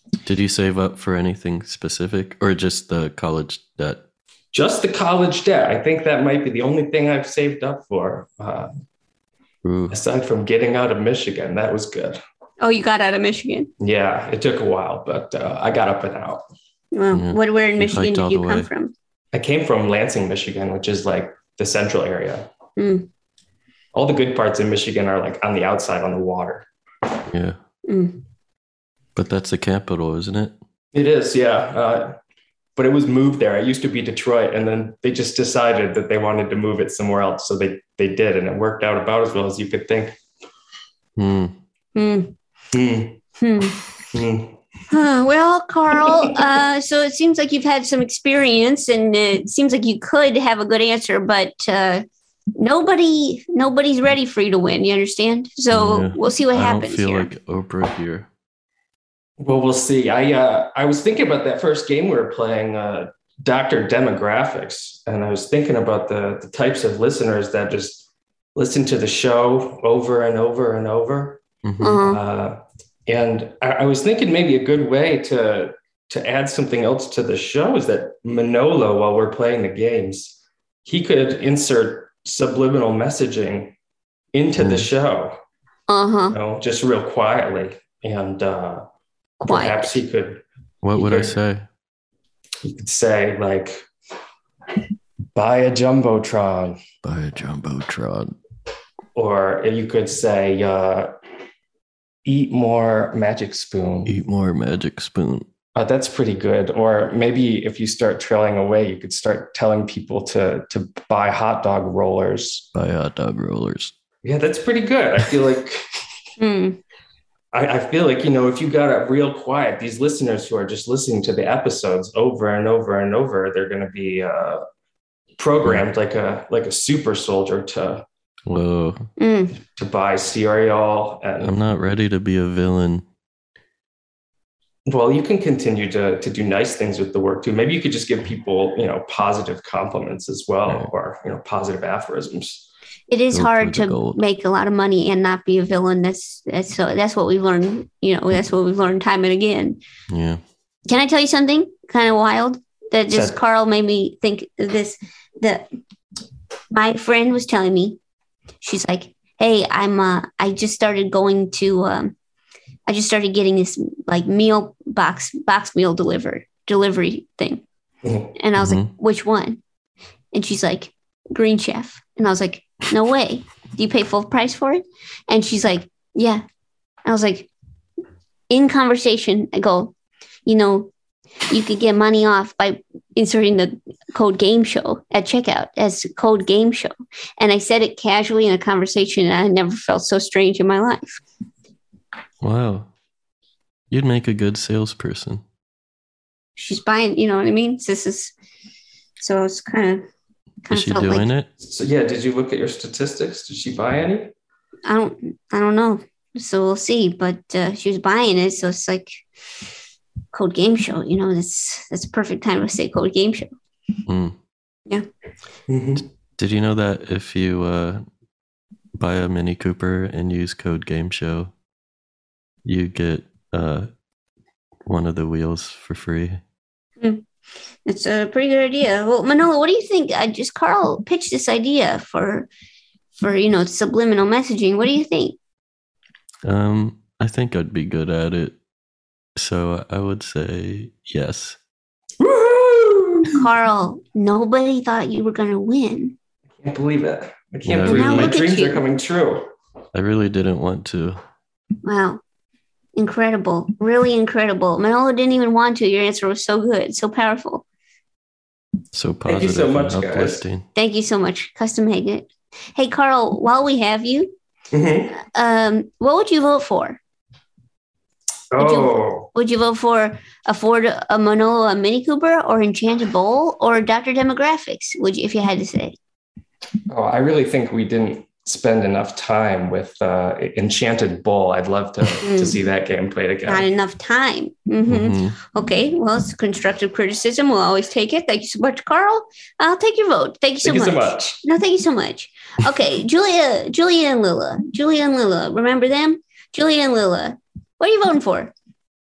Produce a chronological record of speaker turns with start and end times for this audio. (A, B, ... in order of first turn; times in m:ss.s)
0:00.2-0:04.0 A
0:04.5-0:08.7 B
0:09.6-0:10.0 A
0:09.9-0:12.2 B
0:12.6-0:13.7 C
0:13.8-0:16.4 B
0:16.9-0:18.9 C
0:17.1-0:18.7 A
0:19.3-0:22.5 B
0:22.8-0:23.1 C
0:23.9-0:26.6 B
0:27.3-0:27.6 A
0:27.9-0:28.2 C
0:29.2-0:30.5 A
0:30.9-0:32.2 B
0:32.8-0:40.2 B
0:41.2-0:41.5 A
0:41.9-0:42.3 C
0:42.7-0:43.2 B
0:43.4-0:43.8 C
0:44.1-0:44.6 B
0:44.9-0:52.0 C
0:52.6-0:57.3 C
0:55.7-0:58.3 A
0:59.4-1:11.4 B
1:11.6-1:12.0 A
1:11.8-1:12.2 C
1:12.0-1:23.7 B
1:24.3-1:25.4 B
1:24.6-1:24.9 A
1:25.9-1:26.4 C
1:26.3-1:28.8 B
1:29.4-1:30.0 C
1:29.4-1:30.4 B
1:30.8-1:31.6 A
1:30.9-1:31.4 B
1:32.6-1:33.8 B
1:35.3-1:36.8 B
1:37.0-1:38.3 A
1:39.1-1:41.1 B
1:42.2-1:44.1 B
1:44.0-1:45.4 A
1:45.7-1:52.7 B
1:52.7-1:53.9 A
1:54.2-1:55.8 B
1:56.4-1:56.8 C
1:57.5-2:04.6 B
2:05.4-2:08.0 B
2:08.5-2:09.1 A
2:09.2-2:09.6 C
2:09.8-2:11.5 B
2:11.4-2:13.0 A
2:14.8-2:22.7 B
2:20.6-2:20.9 A
2:23.1-2:29.8 C
2:23.3-2:24.2 A
2:30.1-2:30.4 A
2:30.9-2:35.7 C
2:33.1-2:33.4 B
2:36.7-2:38.0 C
2:38.6-2:42.1 C
2:42.9-2:47.6 C
2:48.0-2:48.3 B
2:48.4-2:49.6 C
2:48.6-2:48.9 A
2:50.3-2:56.4 C
2:57.0-2:57.5 C
2:58.5-2:59.9 C
3:00.4-3:00.9 C
3:01.5-3:11.2 C
3:12.4-3:12.9 A
3:13.9-3:15.4 A
3:16.6-3:18.3 C
3:19.2-3:20.1 C
3:20.6-3:21.3 C
3:20.7-3:21.5 A
3:21.6-3:24.3 B
3:24.8-3:29.2 C
3:30.3-3:33.5 C
3:34.1-3:34.3 A
3:35.7-3:36.0 B
3:36.4-3:38.0 A
3:39.0-3:41.5 A
3:42.6-3:43.9 A
3:44.8-3:46.4 A
3:47.8-3:52.5 C
3:53.2-3:55.4 C
3:56.4-3:58.6 A
3:59.4-4:01.6 A
4:02.2-4:03.4 B
4:03.3-4:06.2 C
4:06.6-4:09.5 B
4:07.6-4:08.4 A
4:07.8-4:08.8 C
4:09.9-4:11.2 A
4:11.8-4:12.2 C
4:13.0-4:17.6 C
4:18.9-4:20.6 A
4:19.2-4:20.4 B
4:20.7-4:24.3 C
4:24.7-4:25.1 B
4:25.1-4:27.0 C
4:28.5-4:29.3 B
4:28.6-4:36.0 C
4:36.9-4:43.7 B
4:42.2-4:42.6 C
4:43.4-4:58.5 C
4:44.9-4:45.4 A
4:50.6-4:51.4 B